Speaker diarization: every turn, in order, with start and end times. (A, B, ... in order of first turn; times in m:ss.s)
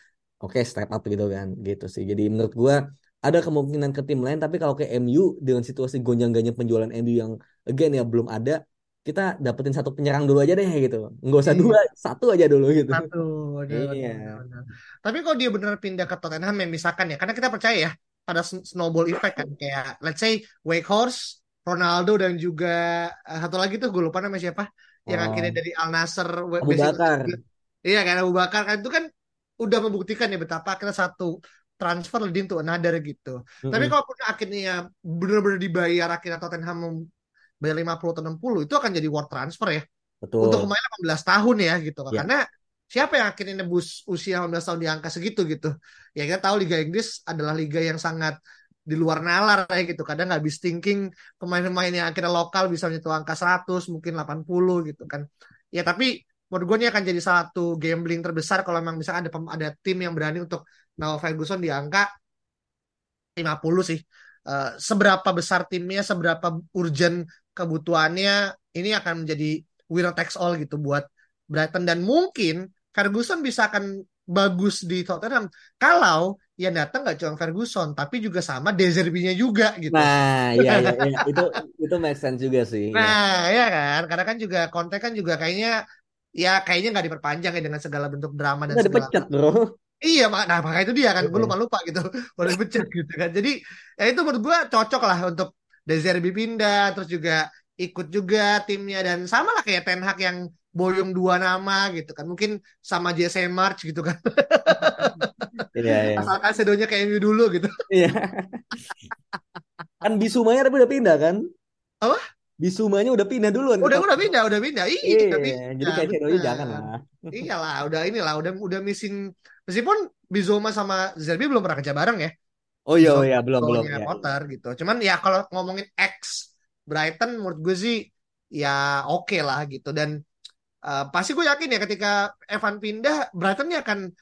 0:00.4-0:13.1 A
0:11.5-0:11.8 B
0:12.9-0:29.0 B
0:13.7-0:14.4 A
0:25.1-0:25.6 A
0:26.6-0:27.4 A
0:29.6-0:37.0 B
0:33.7-0:34.0 A
0:37.6-0:39.8 B
0:40.2-0:40.7 A
0:40.4-0:42.4 B
0:42.9-0:48.4 B
0:48.9-1:02.1 B
1:03.4-1:21.4 B
1:19.9-1:23.2 A
1:23.0-1:25.7 B
1:26.4-1:29.1 B
1:28.7-1:29.6 A
1:30.0-1:47.7 B
1:31.2-1:31.6 A
1:45.8-1:46.3 A
1:47.9-1:48.6 A
1:50.0-1:51.4 A
1:52.6-1:54.3 A
1:53.8-1:56.8 B
1:55.0-1:57.4 A
1:57.3-1:59.2 B
1:59.7-2:02.3 B
2:02.9-2:04.2 A
2:03.0-2:08.0 B
2:08.6-2:10.1 B
2:10.9-2:14.0 B